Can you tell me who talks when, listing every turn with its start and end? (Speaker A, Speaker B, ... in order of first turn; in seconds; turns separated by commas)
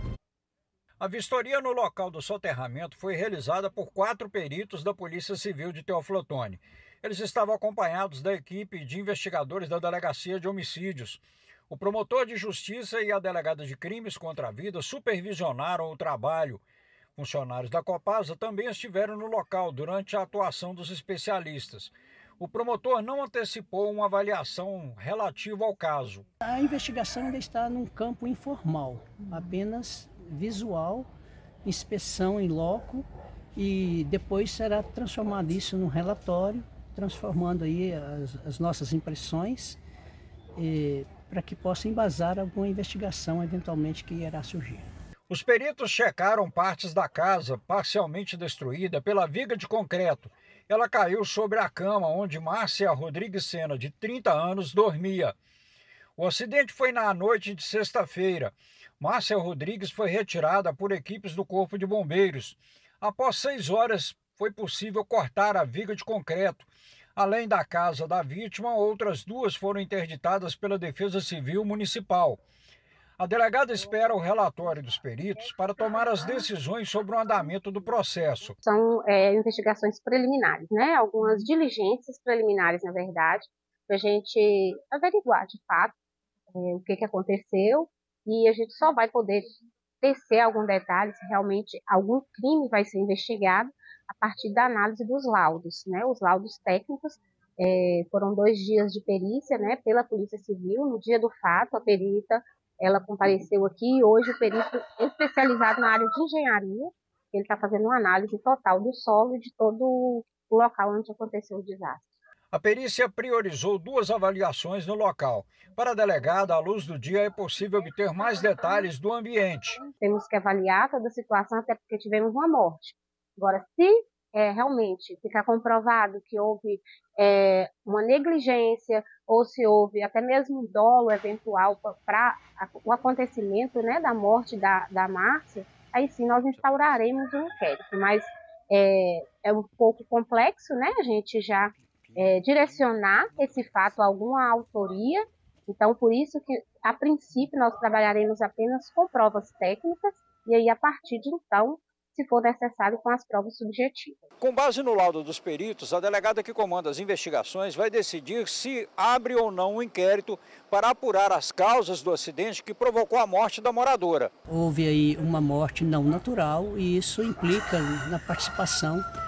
Speaker A: 1.0-16.6, Speaker A: 17.2-26.2, Speaker B: 26.4-31.1, Speaker B: 31.6-39.8, Speaker B: 40.5-44.9, Speaker A: 45.3-55.3, Speaker A: 56.2-72.4, Speaker A: 73.2-78.5, Speaker C: 78.6-85.9, Speaker C: 86.5-89.4, Speaker C: 90.0-112.1, Speaker A: 112.5-119.9, Speaker C: 119.9-154.2, Speaker A: 154.4-164.3, Speaker B: 164.5-169.1